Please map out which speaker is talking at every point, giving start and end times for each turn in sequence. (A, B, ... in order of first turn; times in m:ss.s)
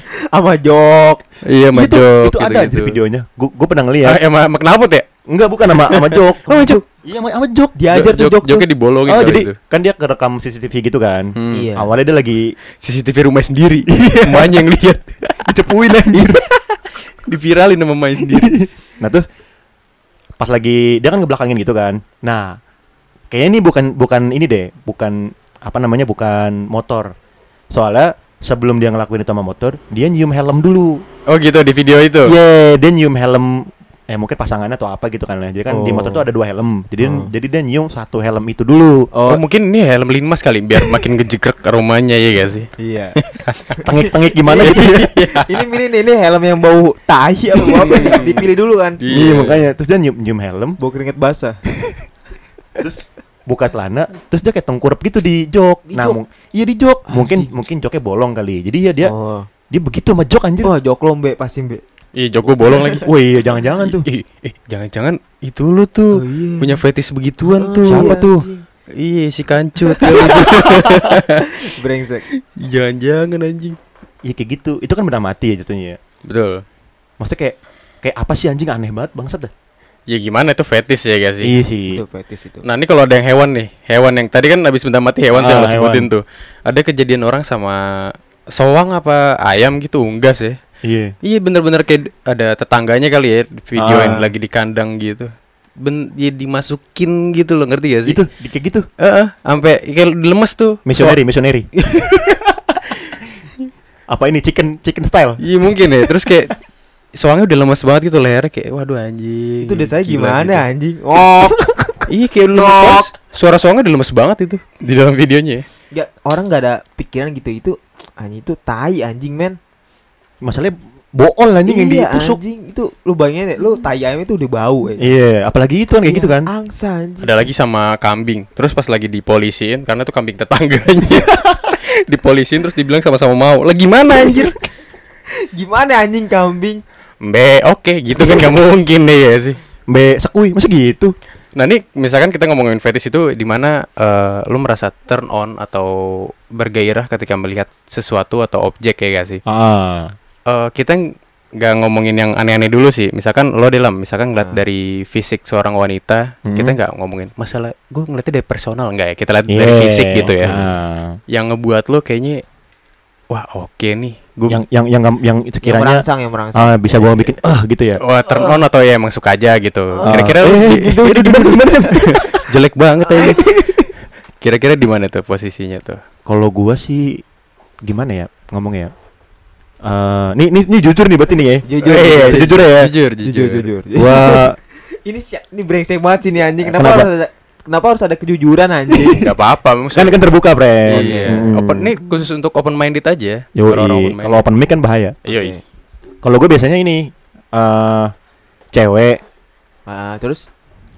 0:00.3-0:01.2 A
0:01.5-0:03.0 B
0:01.7-0:04.2 C
0:04.0-0:05.1 B
0:05.3-0:07.8 C
0:05.7-0:06.8 B
0:06.5-0:06.8 A
0:07.8-0:08.7 A
0:07.9-0:09.6 B
0:09.1-0:12.6 C
0:11.4-0:11.7 B
0:11.5-0:11.9 A
0:12.8-0:15.6 B
0:13.9-0:14.6 C
0:15.4-0:16.4 C
0:16.1-0:18.6 B
0:18.3-0:19.2 C
0:20.4-0:22.5 C
0:23.3-0:27.1 C
0:27.7-0:31.0 C
0:31.3-0:32.4 B
0:32.2-0:39.1 C
0:35.7-0:36.3 A
0:37.0-0:37.3 A
0:39.1-0:39.4 A
0:39.3-0:43.8 B
0:42.8-0:43.2 A
0:43.7-0:49.0 A
0:43.9-0:45.0 C
0:44.6-0:45.6 B
0:47.9-0:48.4 C
0:48.0-0:48.3 B
0:49.0-0:49.7 B
0:49.1-0:50.8 C
0:50.8-0:51.6 A
0:52.8-0:59.1 C
0:55.9-0:56.2 A
0:57.1-0:57.5 A
0:59.0-0:59.5 A
0:59.7-1:00.7 C
1:00.6-1:01.8 A
1:02.2-1:03.1 B
1:02.7-1:03.0 A
1:03.0-1:04.1 C
1:03.8-1:08.3 B
1:06.1-1:06.8 A
1:07.5-1:08.6 A
1:07.9-1:08.5 C
1:09.0-1:11.6 B
1:09.9-1:10.4 A
1:10.3-1:11.0 C
1:11.4-1:12.3 A
1:12.6-1:13.8 B
1:14.2-1:16.0 C
1:16.3-1:16.6 B
1:17.2-1:19.5 C
1:20.1-1:21.6 B
1:21.4-1:22.0 C
1:21.9-1:22.7 A
1:22.6-1:30.6 B
1:25.3-1:26.1 C
1:30.8-1:31.1 C
1:31.2-1:38.2 B
1:33.8-1:34.3 C
1:38.1-1:38.9 C
1:39.0-1:41.2 B
1:40.9-1:41.7 C
1:41.8-1:42.4 B
1:44.1-1:45.4 C
1:45.4-1:46.5 B
1:47.2-1:50.6 B
1:49.6-1:51.6 A
1:51.2-1:51.5 B
1:51.6-1:52.0 C
1:52.1-1:55.6 B
1:52.5-1:53.1 A
1:55.9-1:59.6 A
2:00.4-2:02.4 C
2:01.7-2:05.1 A
2:05.0-2:06.5 C
2:06.1-2:07.4 A
2:07.2-2:14.6 B
2:15.5-2:16.8 A
2:17.2-2:19.6 B
2:18.2-2:18.5 C
2:19.9-2:21.2 C
2:21.6-2:29.4 B
2:29.5-2:30.1 C
2:30.5-2:40.6 B
2:36.5-2:36.8 C
2:39.5-2:41.2 C
2:41.3-2:42.4 B
2:43.3-2:44.6 B
2:44.5-2:46.0 C
2:45.6-2:47.4 A
2:46.6-2:48.0 C
2:48.0-2:53.9 B
2:50.0-2:50.3 A
2:50.1-2:52.4 C
2:53.1-2:53.4 A
2:53.2-2:53.4 C
2:54.4-2:56.0 B
2:56.3-2:57.2 C
2:57.8-2:58.9 C
2:59.8-3:02.9 C
3:01.7-3:02.6 A
3:01.8-3:03.7 B
3:03.2-3:09.3 A
3:04.0-3:04.6 C
3:06.6-3:07.1 C
3:09.1-3:10.3 B
3:10.0-3:11.9 C
3:10.9-3:14.5 B
3:10.9-3:11.5 A
3:13.6-3:15.2 C
3:15.3-3:15.6 B
3:15.3-3:15.6 A
3:16.2-3:18.1 C
3:18.7-3:19.2 C
3:19.9-3:20.4 A